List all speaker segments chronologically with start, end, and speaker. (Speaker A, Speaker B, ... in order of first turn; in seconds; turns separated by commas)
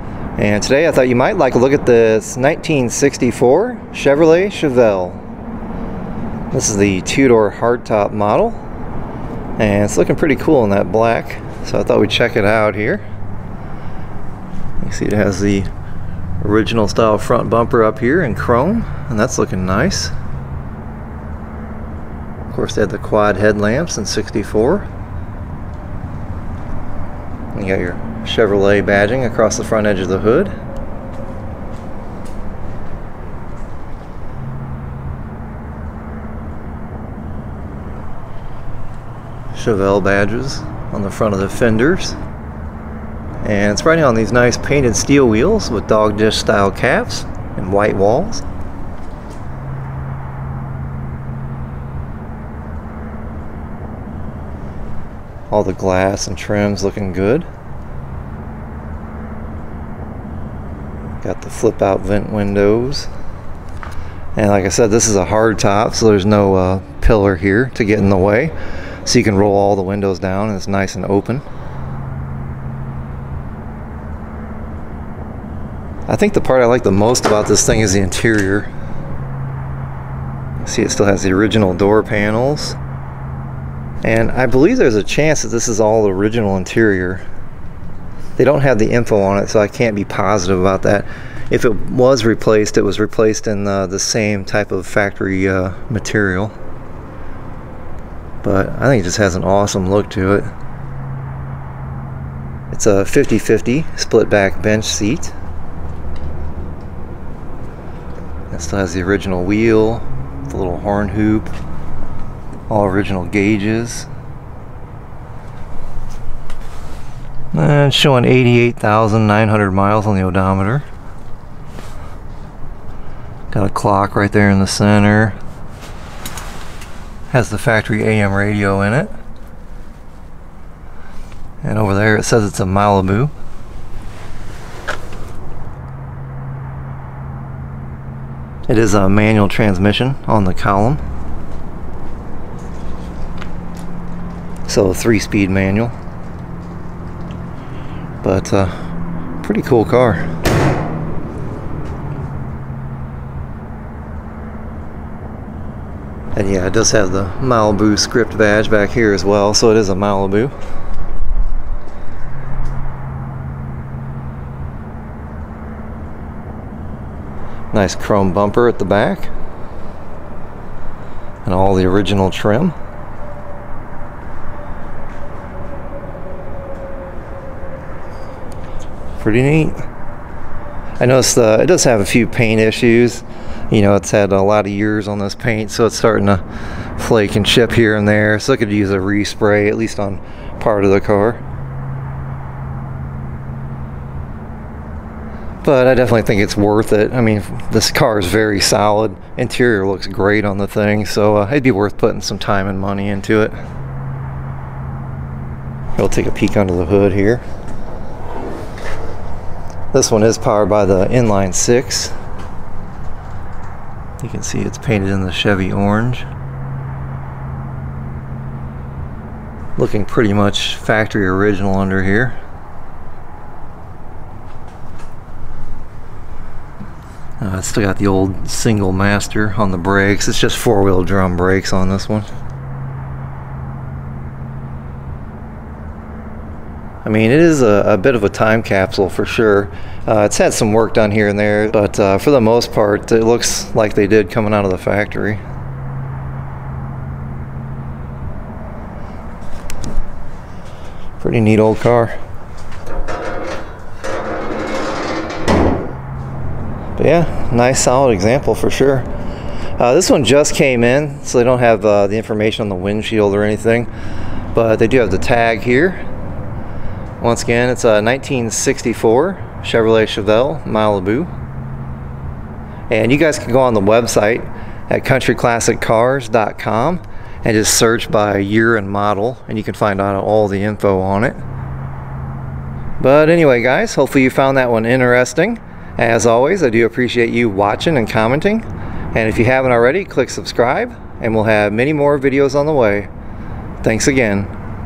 Speaker A: 0.4-5.2, Speaker A: 6.5-8.6, Speaker A: 9.6-13.0, Speaker A: 14.8-15.7, Speaker A: 16.4-20.1, Speaker A: 22.5-24.9, Speaker A: 27.5-30.5, Speaker A: 39.5-42.2, Speaker A: 43.4-48.4, Speaker A: 55.5-57.5, Speaker A: 61.2-63.1, Speaker A: 64.3-68.5, Speaker A: 69.0-71.4, Speaker A: 76.1-78.7, Speaker A: 80.6-82.8, Speaker A: 84.0-87.2, Speaker A: 88.4-96.5, Speaker A: 98.4-100.5, Speaker A: 102.7-105.3, Speaker A: 108.5-111.5, Speaker A: 112.7-114.1, Speaker A: 117.5-120.8, Speaker A: 123.5-125.4, Speaker A: 127.3-129.1, Speaker A: 131.6-133.3, Speaker A: 138.7-141.0, Speaker A: 144.7-145.9, Speaker A: 148.2-148.8, Speaker A: 149.4-150.2, Speaker A: 156.3-160.5, Speaker A: 167.7-169.3, Speaker A: 171.4-172.7, Speaker A: 179.2-179.8, Speaker A: 181.0-186.4, Speaker A: 187.0-191.4, Speaker A: 195.6-203.6, Speaker A: 206.0-207.4, Speaker A: 209.9-212.1, Speaker A: 214.2-216.3, Speaker A: 219.8-222.4, Speaker A: 227.4-232.3, Speaker A: 237.0-245.4, Speaker A: 251.2-252.2, Speaker A: 257.0-259.1, Speaker A: 259.8-263.9, Speaker A: 264.5-266.0, Speaker A: 267.2-271.3, Speaker A: 272.9-281.4, Speaker A: 283.0-293.1, Speaker A: 293.8-294.5